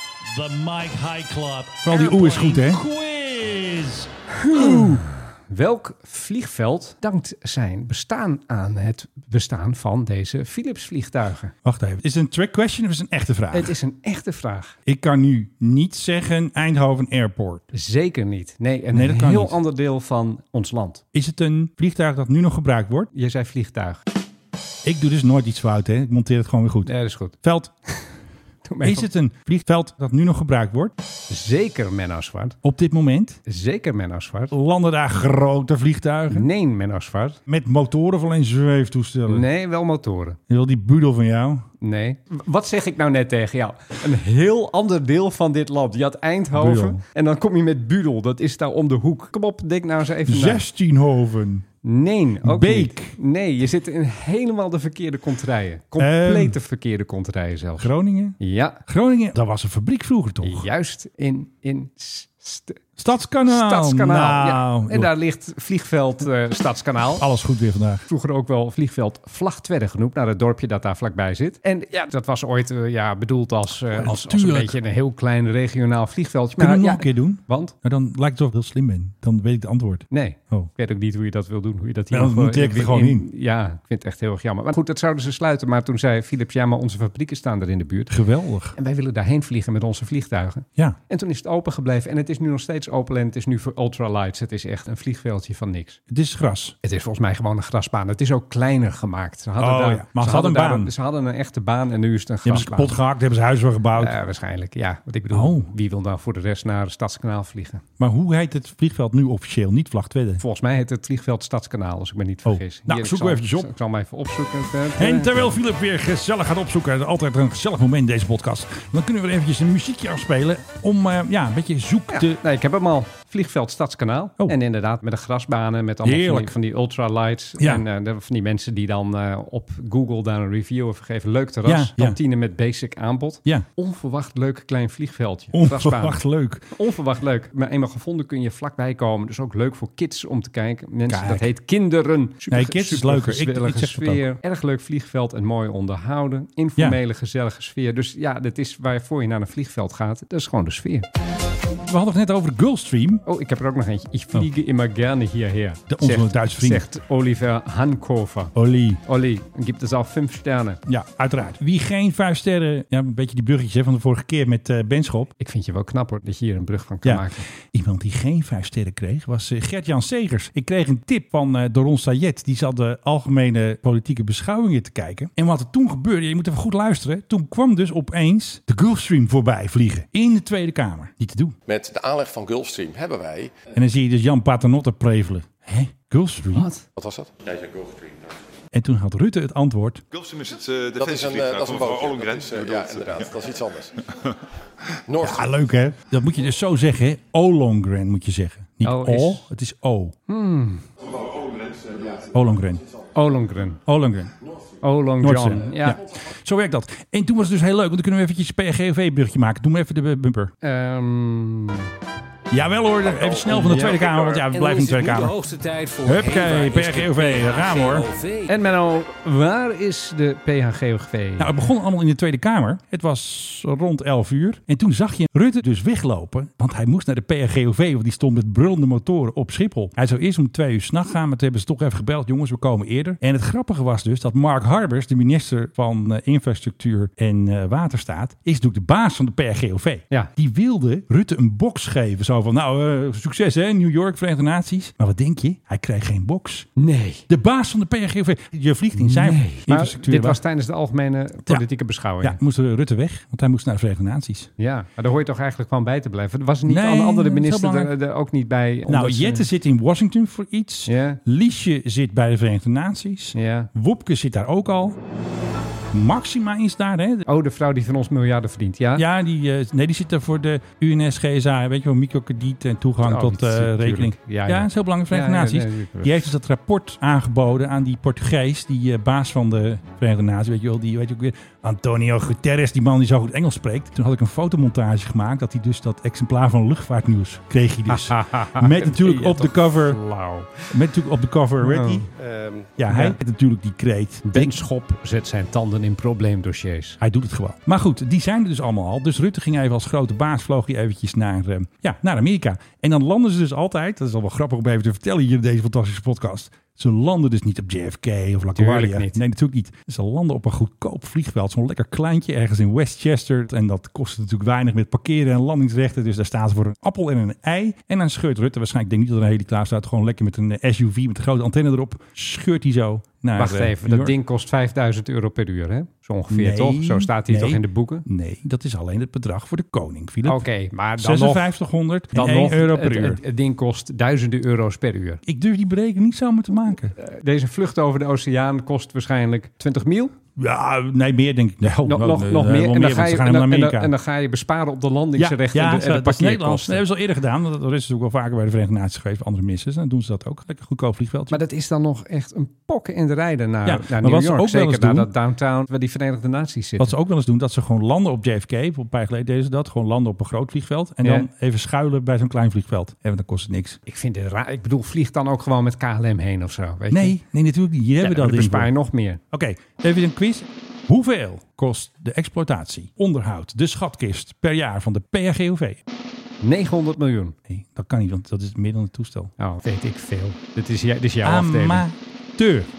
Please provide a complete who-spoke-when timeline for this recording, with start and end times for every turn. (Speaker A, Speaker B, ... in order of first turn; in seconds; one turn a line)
Speaker A: 0.2-4.1
Speaker B: 1.8-2.8
Speaker C: 4.4-11.5
Speaker B: 4.5-5.0
Speaker B: 11.6-13.8
Speaker C: 13.5-14.8
Speaker B: 14.8-17.6
Speaker C: 17.7-21.0
Speaker B: 18.9-19.6
Speaker B: 21.1-23.1
Speaker C: 23.1-24.0
Speaker B: 24.8-26.9
Speaker C: 26.8-27.3
Speaker B: 27.4-27.7
Speaker C: 28.6-29.1
Speaker B: 28.8-30.9
Speaker C: 31.3-32.5
Speaker B: 32.6-33.4
Speaker C: 33.5-34.5
Speaker B: 34.5-36.5
Speaker C: 36.3-37.4
Speaker B: 37.5-39.5
Speaker C: 39.3-40.4
Speaker B: 40.5-41.7
Speaker C: 41.8-50.6
Speaker B: 46.5-47.0
Speaker B: 50.2-51.6
Speaker C: 51.8-58.8
Speaker B: 52.4-53.2
Speaker B: 56.0-56.5
Speaker B: 57.8-60.7
Speaker C: 60.4-62.8
Speaker B: 63.0-65.1
Speaker C: 63.5-67.2
Speaker B: 67.2-68.0
Speaker C: 68.1-77.7
Speaker B: 73.9-74.8
Speaker B: 76.6-80.7
Speaker C: 80.1-88.1
Speaker B: 82.1-83.3
Speaker B: 88.1-88.7
Speaker C: 88.7-96.0
Speaker B: 96.1-96.8
Speaker C: 96.8-102.9
Speaker B: 99.6-100.9
Speaker B: 102.4-104.2
Speaker C: 104.0-107.8
Speaker B: 105.3-105.7
Speaker B: 108.0-110.4
Speaker C: 110.4-115.5
Speaker B: 112.5-113.7
Speaker B: 115.0-122.4
Speaker C: 122.1-151.1
Speaker B: 126.0-126.5
Speaker B: 127.6-127.8
Speaker B: 131.6-132.2
Speaker B: 135.5-136.7
Speaker B: 141.1-141.5
Speaker B: 142.5-144.2
Speaker B: 151.8-153.2
Speaker C: 153.2-158.5
Speaker B: 155.9-156.8
Speaker B: 158.5-159.0
Speaker C: 159.1-160.8
Speaker B: 160.8-165.3
Speaker C: 165.4-167.5
Speaker B: 167.0-181.6
Speaker D: 181.7-183.5
Speaker B: 183.7-186.7
Speaker C: 186.5-186.8
Speaker D: 186.9-188.4
Speaker B: 188.7-190.0
Speaker E: 190.1-193.3
Speaker D: 190.9-194.0
Speaker D: 195.1-195.5
Speaker B: 195.2-200.1
Speaker C: 198.8-199.4
Speaker C: 200.3-200.8
Speaker E: 201.2-202.1
Speaker B: 202.3-202.8
Speaker C: 203.1-203.8
Speaker B: 203.8-204.3
Speaker C: 204.8-206.0
Speaker B: 205.2-210.5
Speaker C: 210.6-211.9
Speaker B: 212.5-215.3
Speaker D: 213.2-214.5
Speaker C: 213.6-214.0
Speaker F: 214.5-218.5
Speaker B: 216.0-218.1
Speaker C: 218.5-221.5
Speaker B: 221.4-246.7
Speaker C: 246.8-247.2
Speaker B: 247.3-250.4
Speaker C: 248.9-252.4
Speaker B: 252.2-254.5
Speaker C: 254.6-259.5
Speaker B: 256.6-257.9
Speaker B: 258.9-265.0
Speaker C: 260.9-261.2
Speaker C: 263.3-263.7
Speaker B: 265.9-267.2
Speaker C: 267.3-269.0
Speaker B: 268.9-290.0
Speaker C: 273.0-276.3
Speaker C: 287.9-290.7
Speaker B: 290.7-292.1
Speaker C: 291.6-292.0
Speaker D: 292.2-292.7
Speaker B: 292.8-294.5
Speaker C: 292.9-293.2
Speaker C: 294.2-297.0
Speaker B: 297.0-324.1
Speaker C: 308.6-309.2
Speaker C: 323.4-328.1
Speaker B: 326.3-330.4
Speaker C: 330.2-331.5
Speaker B: 331.0-333.2
Speaker C: 332.1-335.2
Speaker B: 335.2-336.9
Speaker C: 336.9-340.1
Speaker B: 340.4-343.9
Speaker C: 341.8-346.8
Speaker B: 345.1-351.4
Speaker C: 351.3-356.9
Speaker B: 353.6-355.1
Speaker B: 356.8-363.8
Speaker C: 363.9-367.1
Speaker B: 366.9-368.7
Speaker C: 368.0-369.2
Speaker B: 369.3-375.8
Speaker C: 376.4-377.3
Speaker B: 377.5-379.3
Speaker C: 379.4-381.8
Speaker B: 381.2-382.7